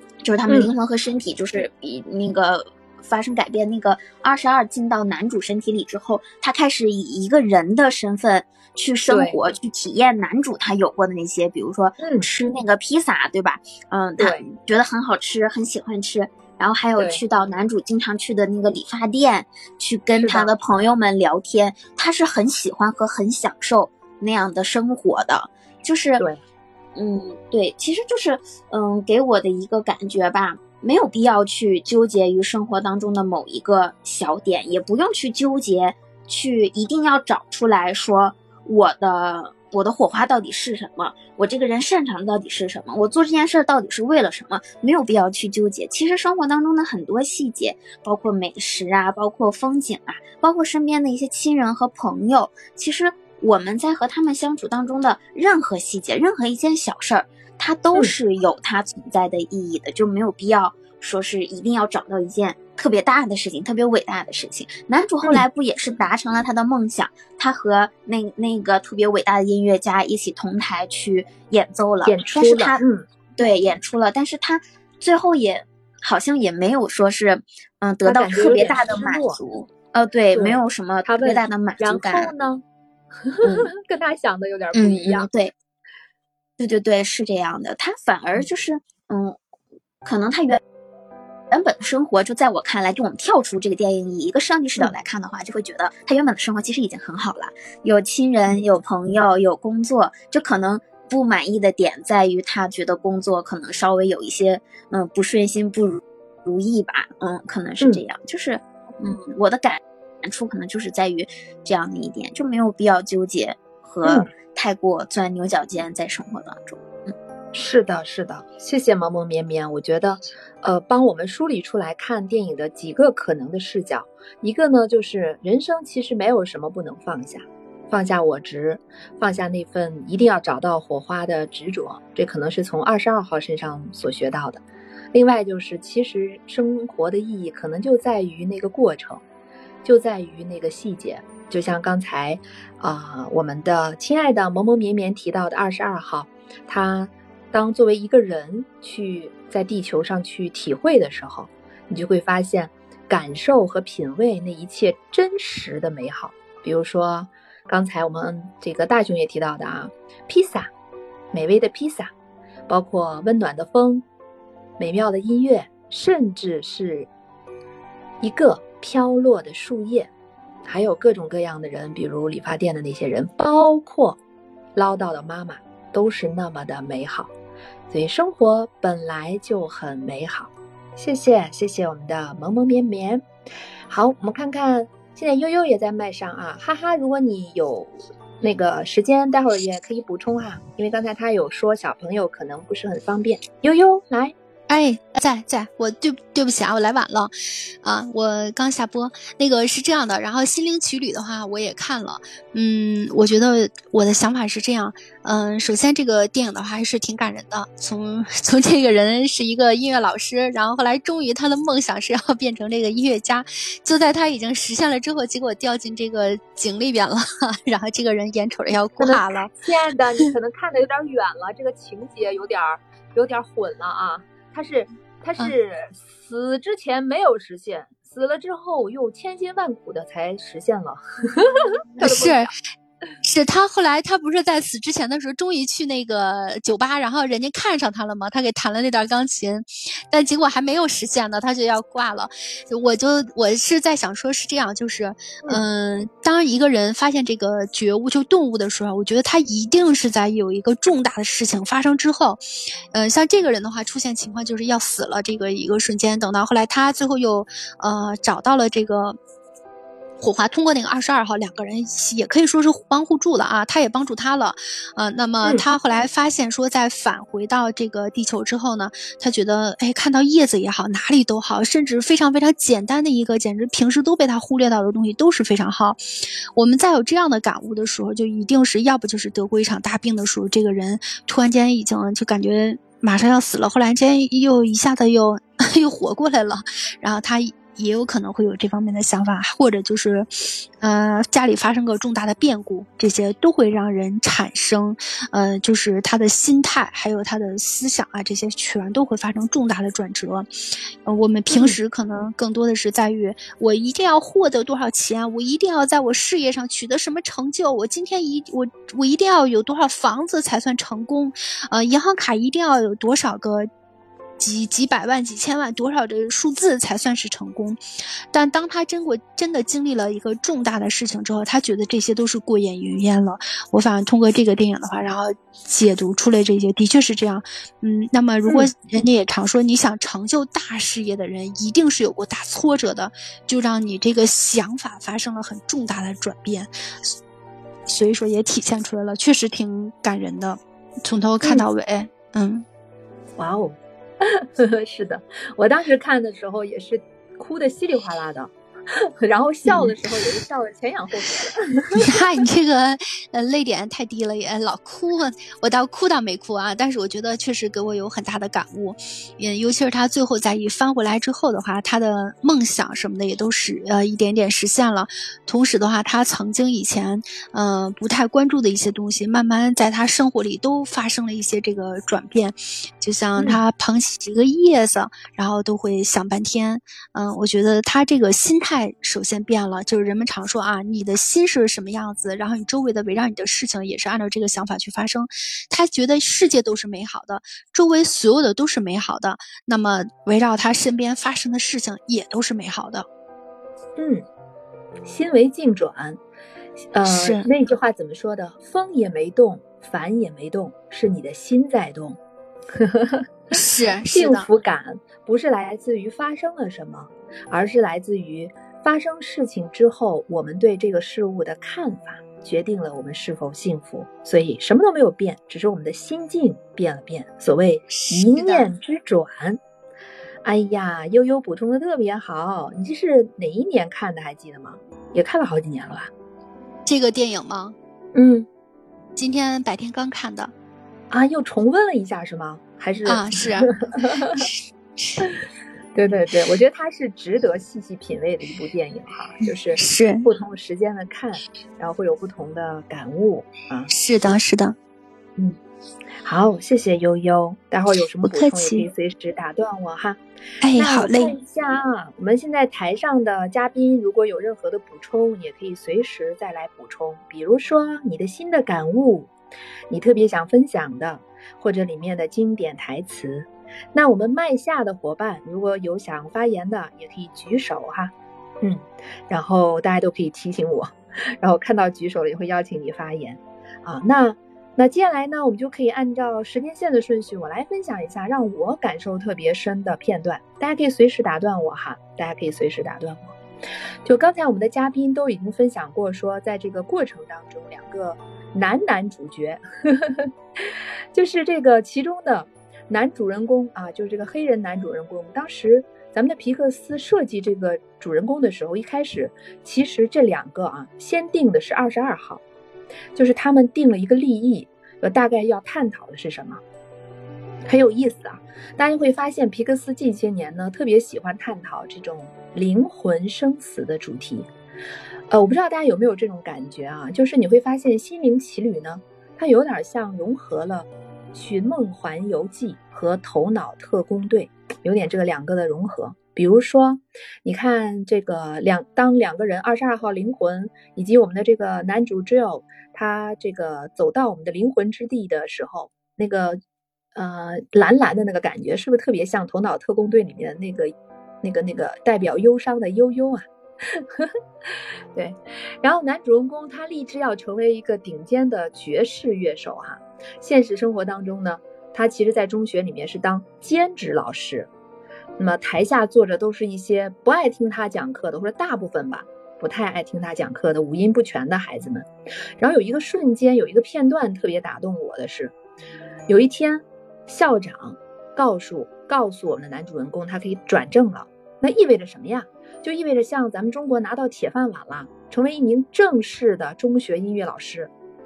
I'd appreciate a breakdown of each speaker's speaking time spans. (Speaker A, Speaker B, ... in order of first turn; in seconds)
Speaker A: 0.2-26.3, 27.0-72.8, 73.4-82.3, 83.4-83.7, 84.7-85.5, 86.6-89.4, 90.0-90.6, 91.5-117.1
Speaker B: 0.5-0.7, 9.1-9.4, 12.0-12.3, 14.2-14.4, 20.2-20.5, 72.0-73.0, 78.0-79.4, 80.3-82.6, 83.3-85.3, 114.0-114.3, 117.5-134.6, 135.1-139.2, 139.8-160.7, 161.3-162.1, 162.7-164.1, 164.8-167.1, 168.2-170.1, 170.7-174.2, 174.8-177.3, 177.9-183.2, 183.9-194.3, 219.0-232.5, 301.5-301.8, 328.4-328.7, 341.4-341.7, 343.4-348.5, 349.2-352.1, 394.0-394.2, 395.0-396.2, 396.9-402.2, 402.8-403.2, 404.1-419.6, 420.4-426.1, 428.1-428.5, 431.1-434.5, 435.9-443.9, 446.2-450.2, 450.8-459.3, 459.9-483.3, 484.1-502.4, 503.1-506.6, 507.7-514.5, 515.3-536.6, 537.1-544.3, 545.1-554.7, 555.4-562.1, 562.6-565.5, 566.3-577.9
Speaker C: 194.7-219.6, 232.0-232.6, 233.2-252.4, 252.9-259.2, 260.2-276.0, 276.6-290.3, 290.8-300.5, 301.1-313.7, 314.4-317.8, 318.3-337.1, 337.9-342.6, 349.7-350.3, 352.0-393.1, 397.1-397.5, 403.5-404.5, 417.9-418.7, 426.9-427.8, 429.2-430.5, 433.1-435.3, 439.7-440.3, 443.9-444.8, 448.2-448.9, 450.6-451.4